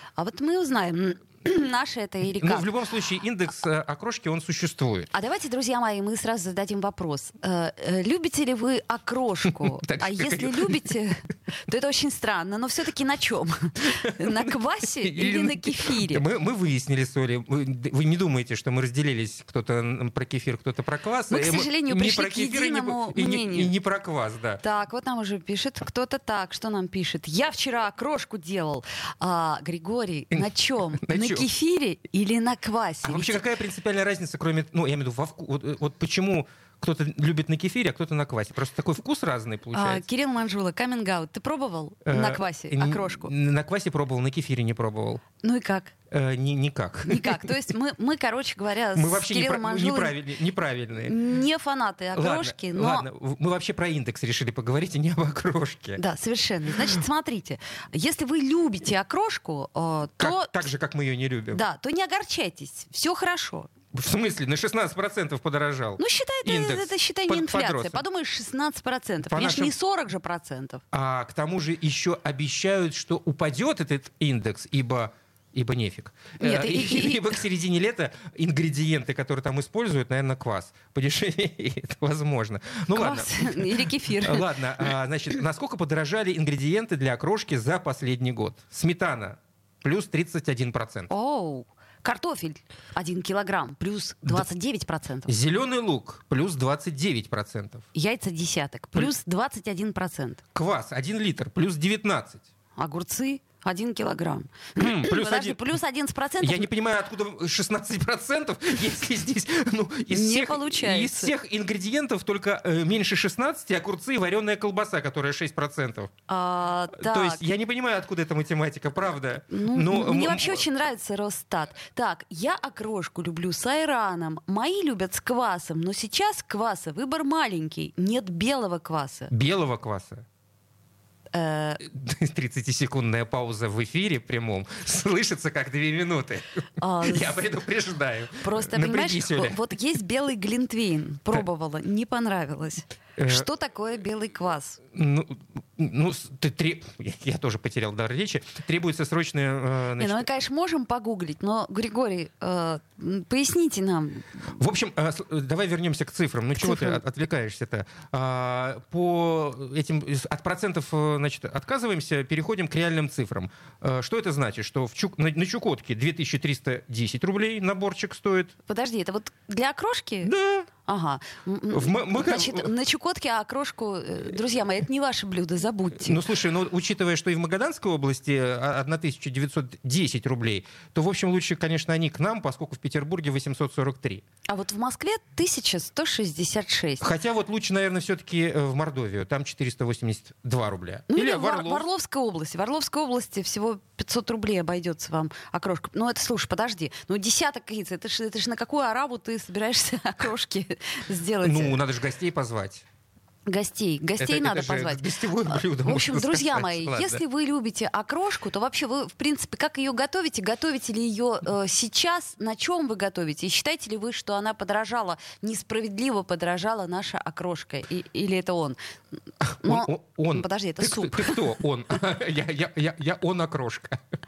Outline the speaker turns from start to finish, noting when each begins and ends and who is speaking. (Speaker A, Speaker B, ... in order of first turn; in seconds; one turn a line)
Speaker A: 0.2-2.7
Speaker B: 2.3-5.1
Speaker A: 5.1-16.2
Speaker B: 9.5-10.8
Speaker B: 14.0-14.5
Speaker B: 15.0-24.6
Speaker A: 21.3-23.7
Speaker A: 24.6-33.4
Speaker B: 30.3-31.5
Speaker B: 33.0-40.0
Speaker A: 39.7-43.3
Speaker B: 42.1-45.2
Speaker A: 45.4-45.9
Speaker B: 46.1-47.5
Speaker A: 47.1-50.1
Speaker B: 48.9-51.1
Speaker A: 51.0-53.1
Speaker B: 52.1-56.0
Speaker A: 56.0-60.6
Speaker B: 56.7-57.0
Speaker B: 60.2-61.6
Speaker A: 61.5-63.7
Speaker B: 63.9-68.0
Speaker A: 66.0-70.8
Speaker B: 69.3-69.7
Speaker B: 70.9-91.1
Speaker A: 76.4-77.4
Speaker A: 82.9-84.5
Speaker A: 91.1-95.3
Speaker B: 95.2-97.9
Speaker A: 97.9-100.4
Speaker B: 100.5-102.4
Speaker A: 102.8-106.7
Speaker B: 104.8-105.7
Speaker B: 106.4-116.1
Speaker A: 110.1-111.3
Speaker A: 116.3-117.5
Speaker B: 116.9-120.6
Speaker A: 119.5-129.3
Speaker B: 129.3-130.2
Speaker A: 131.3-131.8
Speaker B: 131.8-139.6
Speaker A: 136.8-137.4
Speaker A: 138.4-144.8
Speaker B: 143.2-143.5
Speaker B: 144.9-150.2
Speaker A: 150.0-154.5
Speaker B: 154.5-168.5
Speaker A: 156.6-157.0
Speaker A: 168.7-170.3
Speaker B: 170.2-170.7
Speaker A: 170.9-176.2
Speaker B: 171.7-172.7
Speaker B: 176.0-184.2
Speaker A: 184.5-187.1
Speaker B: 187.0-191.9
Speaker A: 191.1-201.8
Speaker B: 201.4-202.8
Speaker A: 203.5-218.8
Speaker B: 204.2-207.2
Speaker B: 219.4-224.0
Speaker A: 219.6-221.4